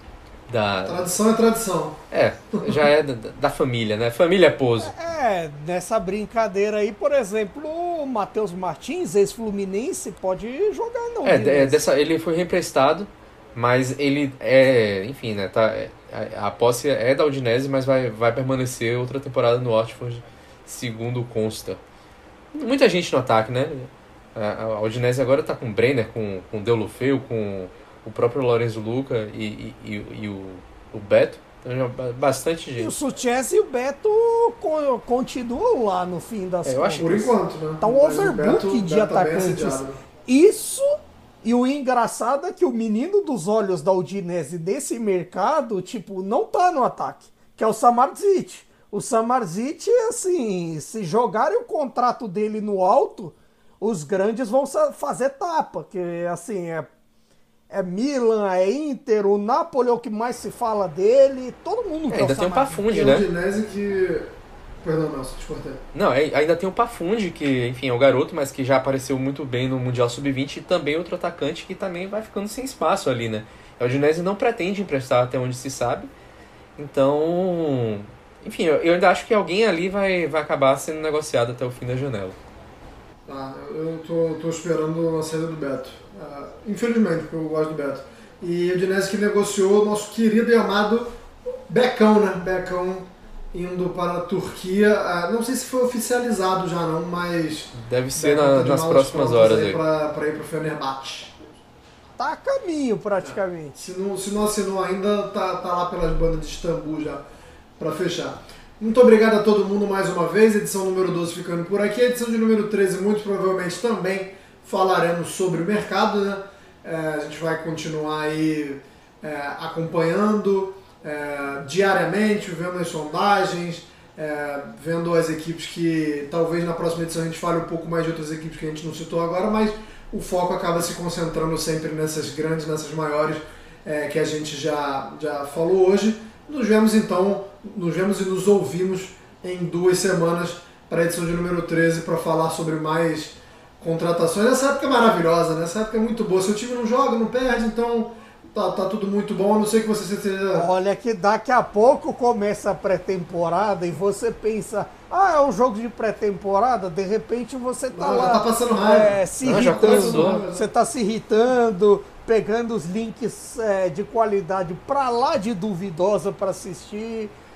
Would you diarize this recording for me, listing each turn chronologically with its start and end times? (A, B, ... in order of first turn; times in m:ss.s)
0:00.5-0:01.1 A
0:00.8-0:02.0 B
0:02.1-0:04.9 A
0:04.8-0:11.8 C
0:11.2-0:21.8 A
0:22.5-0:32.9 A
0:32.8-0:56.9 C
0:36.6-0:37.1 A
0:37.0-0:40.0 B
0:57.7-1:02.8 C
1:02.1-1:03.3 A
1:02.9-1:04.3 B
1:04.8-1:05.8 B
1:05.9-1:16.1 A
1:16.8-1:22.4 A
1:23.3-1:31.2 B
1:31.7-1:41.4 B
1:37.8-1:39.8 A
1:42.2-1:43.8 C
1:43.2-1:47.2 B
1:47.8-2:30.7 B
2:30.5-2:47.3 C
2:37.9-2:40.7 B
2:39.4-2:40.4 A